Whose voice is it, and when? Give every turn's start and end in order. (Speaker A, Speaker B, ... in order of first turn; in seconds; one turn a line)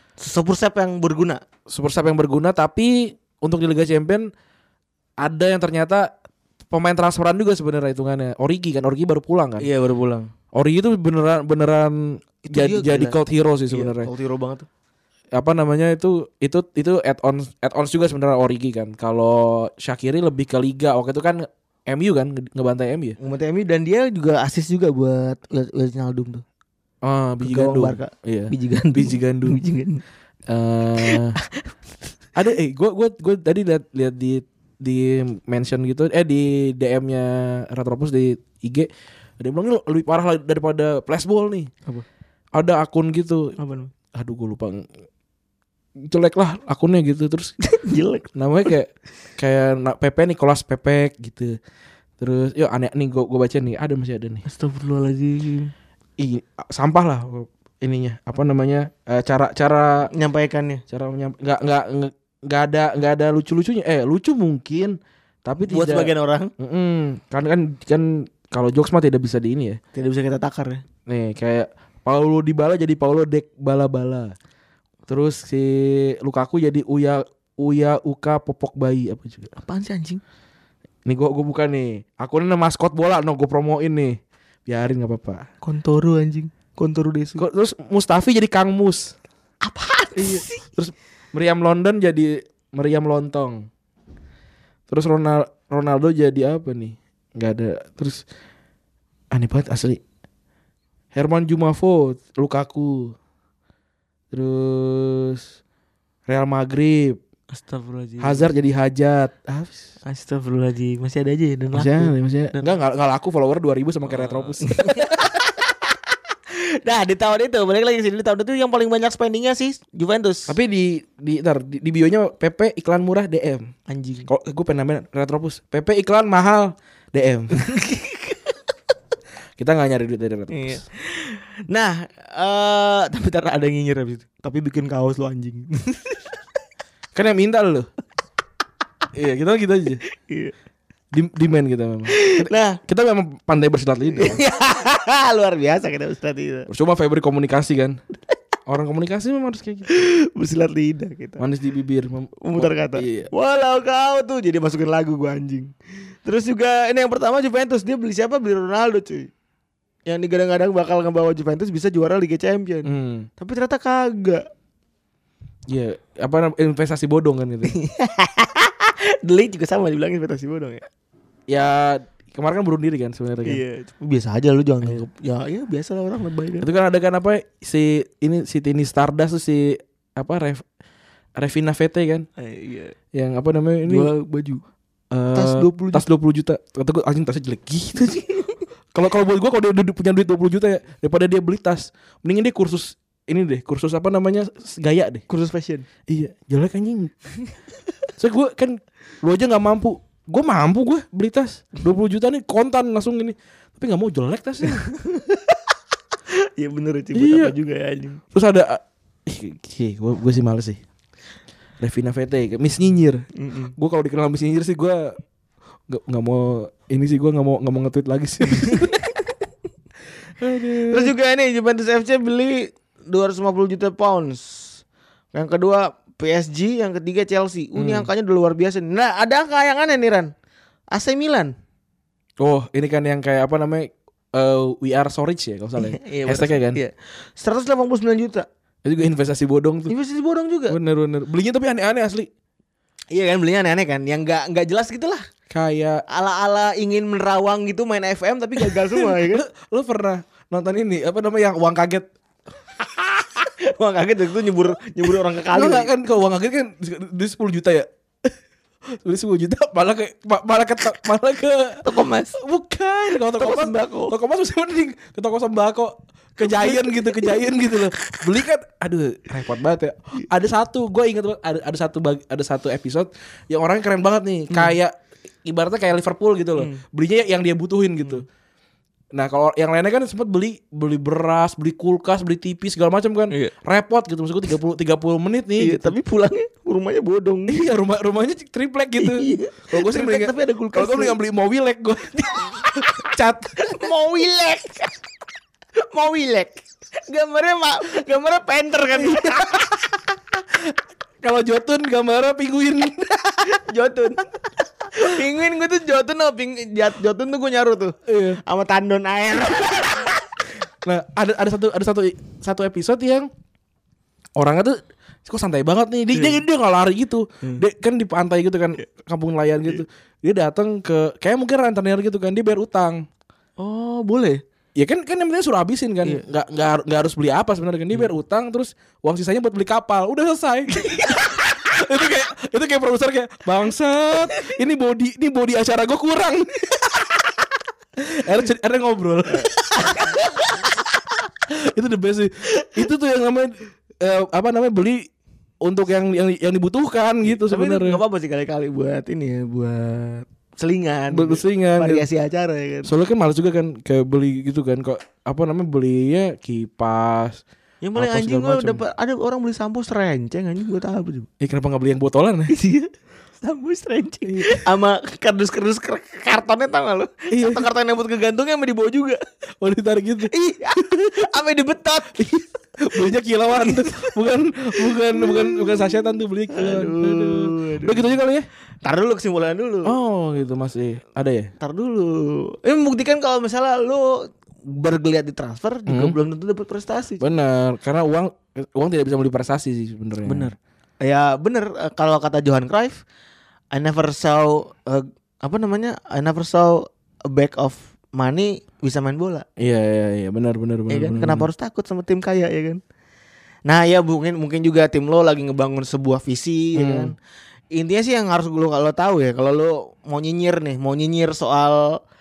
Speaker A: 0.2-1.4
Speaker B: 1.7-4.3
Speaker B: 5.2-6.1
Speaker B: 6.7-9.7
Speaker A: 9.6-10.3
Speaker B: 10.6-14.1
Speaker A: 12.4-13.2
Speaker A: 13.7-14.7
Speaker B: 15.3-23.2
Speaker A: 23.2-26.4
Speaker B: 27.0-29.6
Speaker A: 27.4-30.0
Speaker B: 30.5-31.4
Speaker A: 31.0-31.7
Speaker B: 32.4-38.9
Speaker B: 39.4-41.7
Speaker B: 42.5-43.5
Speaker A: 43.6-43.9
Speaker B: 44.1-44.9
Speaker B: 46.0-47.5
Speaker A: 47.6-48.3
Speaker B: 48.4-51.5
Speaker B: 52.2-54.5
Speaker A: 54.5-55.7
Speaker B: 56.2-60.1
Speaker A: 60.1-60.8
Speaker B: 60.9-69.8
Speaker A: 65.7-66.5
Speaker A: 69.9-70.8
Speaker B: 71.1-74.3
Speaker B: 75.1-79.5
Speaker A: 79.6-80.2
Speaker B: 81.1-85.5
Speaker A: 85.6-87.4
Speaker B: 87.4-89.2
Speaker A: 89.6-90.6
Speaker B: 90.2-93.7
Speaker B: 94.9-98.2
Speaker B: 99.3-100.0
Speaker B: 101.1-103.2
Speaker B: 104.3-105.5
Speaker B: 106.3-107.2
Speaker A: 107.5-108.5
Speaker B: 108.2-109.8
Speaker A: 110.0-112.7
Speaker B: 111.7-115.1
Speaker A: 114.1-116.0
Speaker A: 116.5-120.5
Speaker B: 120.5-123.7
Speaker A: 123.9-124.3
Speaker B: 124.3-127.6
Speaker A: 127.5-128.4
Speaker B: 129.6-130.8
Speaker A: 130.5-136.3
Speaker B: 137.2-137.9
Speaker B: 139.1-140.0
Speaker A: 140.1-140.5
Speaker B: 141.1-144.4
Speaker A: 142.1-142.8
Speaker A: 144.2-146.7
Speaker B: 146.7-148.0
Speaker B: 148.7-149.9
Speaker A: 149.9-151.4
Speaker B: 151.4-153.3
Speaker A: 152.4-159.3
Speaker A: 160.1-164.4
Speaker B: 162.8-163.3
Speaker B: 165.7-167.8
Speaker A: 167.7-170.9
Speaker B: 171.5-173.6
Speaker A: 173.4-176.7
Speaker B: 176.6-180.6
Speaker B: 181.4-182.3
Speaker A: 182.4-182.9
Speaker B: 183.1-184.1
Speaker A: 183.9-184.6
Speaker B: 185.1-188.3
Speaker A: 185.3-186.1
Speaker B: 188.9-195.2
Speaker A: 195.3-195.9
Speaker B: 196.1-197.1
Speaker B: 198.2-204.9
Speaker A: 204.8-205.6
Speaker A: 206.3-208.2
Speaker B: 207.2-207.6
Speaker B: 208.3-210.8
Speaker B: 211.8-213.2
Speaker A: 213.4-213.7
Speaker B: 213.8-215.2
Speaker B: 215.9-219.1
Speaker A: 218.5-219.0
Speaker B: 220.4-221.1
Speaker A: 220.9-224.8
Speaker A: 225.3-230.3
Speaker B: 227.8-228.1
Speaker A: 230.9-231.6
Speaker B: 232.4-236.8
Speaker A: 235.8-238.5
Speaker B: 238.8-239.9
Speaker A: 239.9-240.8
Speaker B: 240.7-242.3
Speaker A: 243.1-245.3
Speaker B: 245.5-246.0
Speaker A: 246.1-249.4
Speaker B: 248.6-252.1
Speaker A: 253.2-255.9
Speaker B: 255.5-257.9
Speaker B: 258.9-278.3
Speaker A: 261.9-262.4
Speaker A: 263.3-264.1
Speaker A: 266.4-267.4
Speaker B: 279.1-285.9
Speaker A: 285.6-287.6
Speaker B: 287.5-293.7
Speaker A: 289.0-291.2
Speaker A: 293.6-295.0
Speaker A: 295.8-299.8
Speaker B: 299.0-299.7
Speaker B: 301.2-303.6
Speaker A: 303.5-304.3
Speaker A: 304.9-310.2
Speaker B: 308.1-308.4
Speaker B: 310.9-313.3
Speaker B: 314.4-323.1
Speaker A: 316.1-316.4
Speaker A: 323.6-324.4
Speaker B: 324.8-337.1
Speaker A: 330.8-331.2
Speaker B: 338.0-340.1
Speaker A: 339.9-340.2
Speaker B: 341.5-345.1
Speaker B: 345.6-348.0
Speaker A: 347.2-352.9
Speaker B: 351.1-352.1
Speaker B: 352.9-357.4
Speaker A: 357.8-361.3
Speaker B: 358.0-358.8
Speaker B: 361.4-362.5
Speaker A: 362.5-369.2
Speaker B: 364.2-364.6
Speaker B: 367.3-367.7
Speaker B: 369.6-370.3
Speaker A: 370.3-372.3
Speaker B: 372.2-378.5
Speaker A: 373.5-374.2
Speaker A: 374.8-375.9
Speaker A: 376.5-378.2
Speaker A: 378.8-379.9
Speaker B: 379.9-381.5
Speaker A: 381.6-387.2
Speaker B: 385.9-386.2
Speaker B: 387.2-390.6
Speaker A: 390.2-393.0
Speaker A: 393.7-399.5
Speaker B: 399.6-401.5
Speaker A: 400.9-402.8
Speaker A: 403.7-407.1
Speaker B: 406.8-407.1
Speaker A: 407.7-412.0